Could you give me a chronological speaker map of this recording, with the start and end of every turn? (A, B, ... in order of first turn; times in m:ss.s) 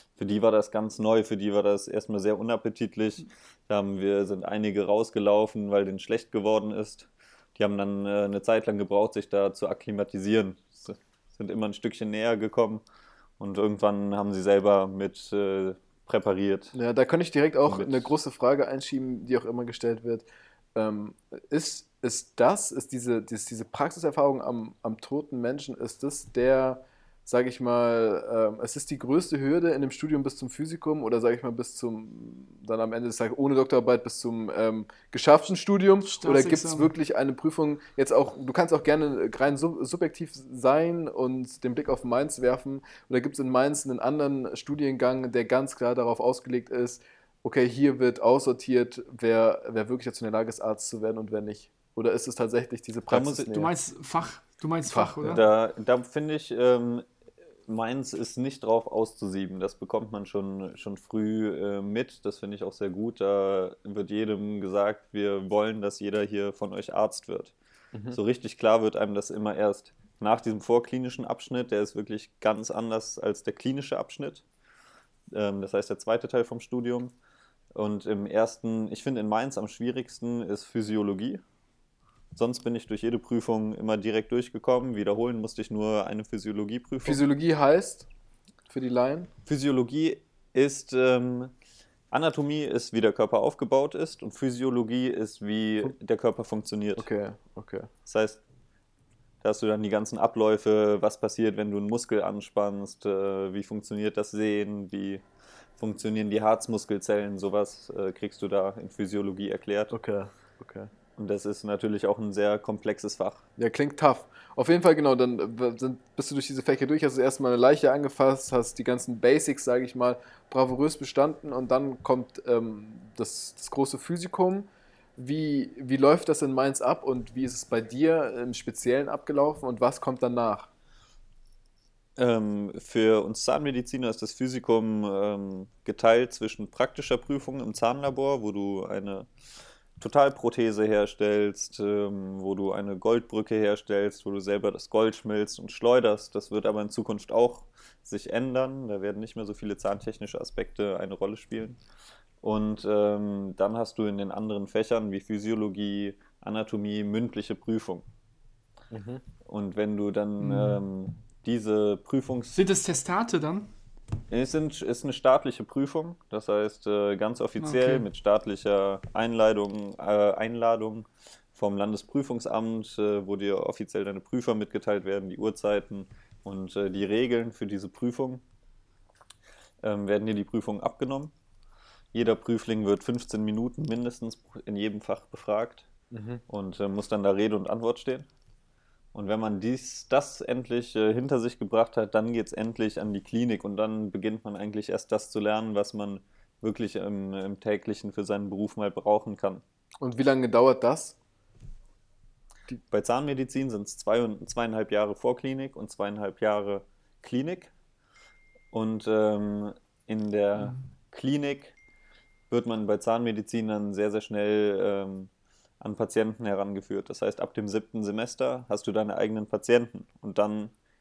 0:00.2-0:12.8 A
0:13.4-0:16.7 A
0:16.7-0:53.7 B
0:17.7-0:18.1 A
0:36.0-0:36.9 C
0:53.1-0:53.5 A
0:53.5-0:55.4 C
0:54.9-0:55.4 B
0:55.3-0:57.1 A
0:57.7-1:07.5 A
1:08.1-1:14.4 A
1:15.3-1:17.1 A
1:17.7-1:21.4 A
1:22.3-1:27.2 A
1:27.0-1:28.1 B
1:28.7-1:29.3 B
1:29.4-1:31.5 A
1:32.1-1:37.1 A
1:37.0-1:37.9 B
1:38.0-1:38.4 A
1:39.4-1:45.2 A
1:45.8-1:49.9 A
1:49.9-1:50.9 B
1:51.2-1:53.4 A
1:53.6-2:10.7 B
2:12.2-2:19.3 A
2:20.0-2:31.8 A
2:32.4-2:38.0 A
2:38.9-2:39.2 B
2:39.4-2:42.6 A
2:40.4-2:40.8 C
2:42.5-2:43.7 C
2:44.3-2:58.4 A
2:47.6-2:48.0 C
2:59.8-3:01.3 A
3:02.1-3:05.9 A
3:06.1-3:06.4 B
3:06.5-3:08.3 A
3:09.1-3:19.6 A
3:20.0-3:21.2 B
3:22.9-3:27.7 A
3:28.7-3:31.7 A
3:32.5-3:35.3 A
3:35.8-3:40.7 A